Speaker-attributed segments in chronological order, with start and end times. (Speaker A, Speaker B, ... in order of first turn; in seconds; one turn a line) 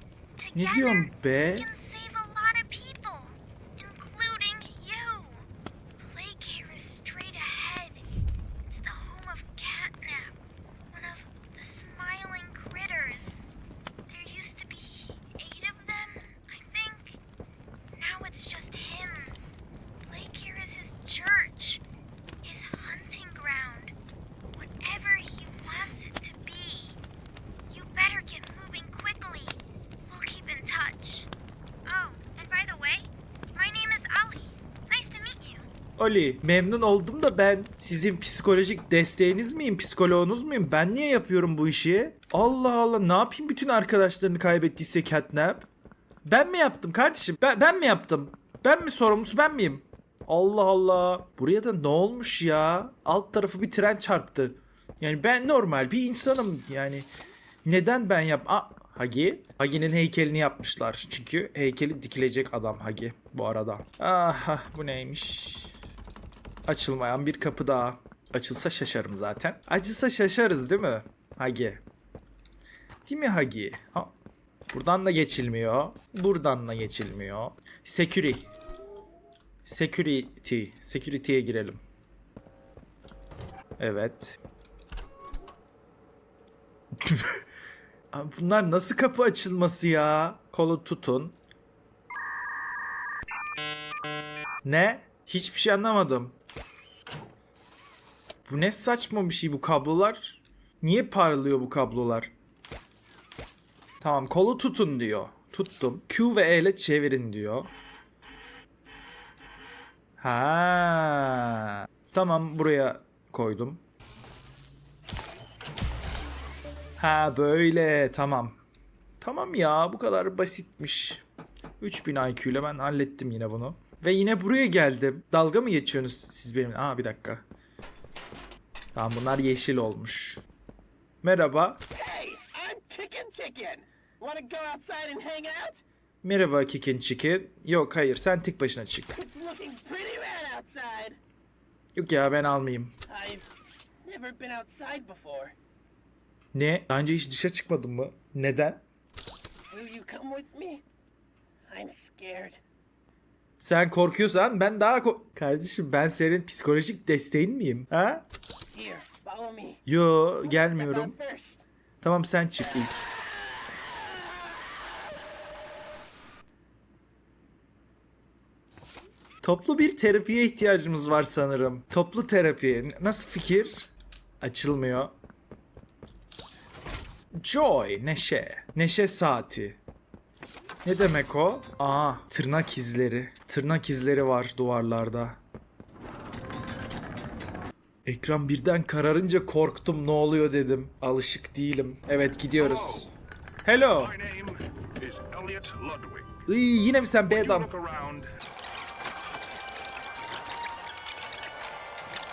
Speaker A: 0.4-5.4
Speaker B: 0.5-1.7
Speaker A: 6.0-8.0
Speaker A: 8.7-10.3
Speaker A: 10.9-13.5
Speaker A: 14.1-17.2
Speaker A: 17.9-19.4
Speaker A: 20.0-21.8
Speaker A: 22.4-23.9
Speaker A: 24.5-27.0
Speaker A: 27.7-31.3
Speaker A: 31.9-35.6
Speaker B: 36.0-45.7
Speaker B: 46.2-57.1
Speaker B: 57.6-65.7
Speaker B: 66.7-71.8
Speaker B: 73.0-74.1
Speaker B: 74.7-78.5
Speaker B: 79.6-81.8
Speaker B: 83.8-84.4
Speaker B: 87.0-87.4
Speaker B: 88.1-91.3
Speaker B: 94.6-96.3
Speaker B: 98.5-102.3
Speaker B: 104.0-107.7
Speaker B: 110.2-113.8
Speaker B: 117.0-118.5
Speaker B: 119.2-121.2
Speaker B: 121.8-127.4
Speaker B: 128.9-130.4
Speaker B: 131.2-131.8
Speaker C: 131.9-135.8
Speaker B: 136.2-139.1
Speaker C: 139.1-141.2
Speaker B: 141.9-142.9
Speaker C: 143.1-143.4
Speaker C: 144.0-145.5
Speaker B: 146.5-148.8
Speaker C: 149.7-150.8
Speaker C: 151.7-152.6
Speaker B: 153.6-158.2
Speaker C: 158.7-159.8
Speaker B: 159.8-161.2
Speaker C: 160.4-161.6
Speaker B: 162.0-163.1
Speaker C: 162.6-162.9
Speaker B: 169.4-173.9
Speaker B: 174.4-175.1
Speaker B: 177.3-179.8
Speaker B: 180.8-185.4
Speaker B: 188.0-193.1
Speaker D: 192.6-193.1
Speaker B: 193.6-194.2
Speaker D: 193.9-196.3
Speaker B: 196.5-197.8
Speaker D: 197.3-198.3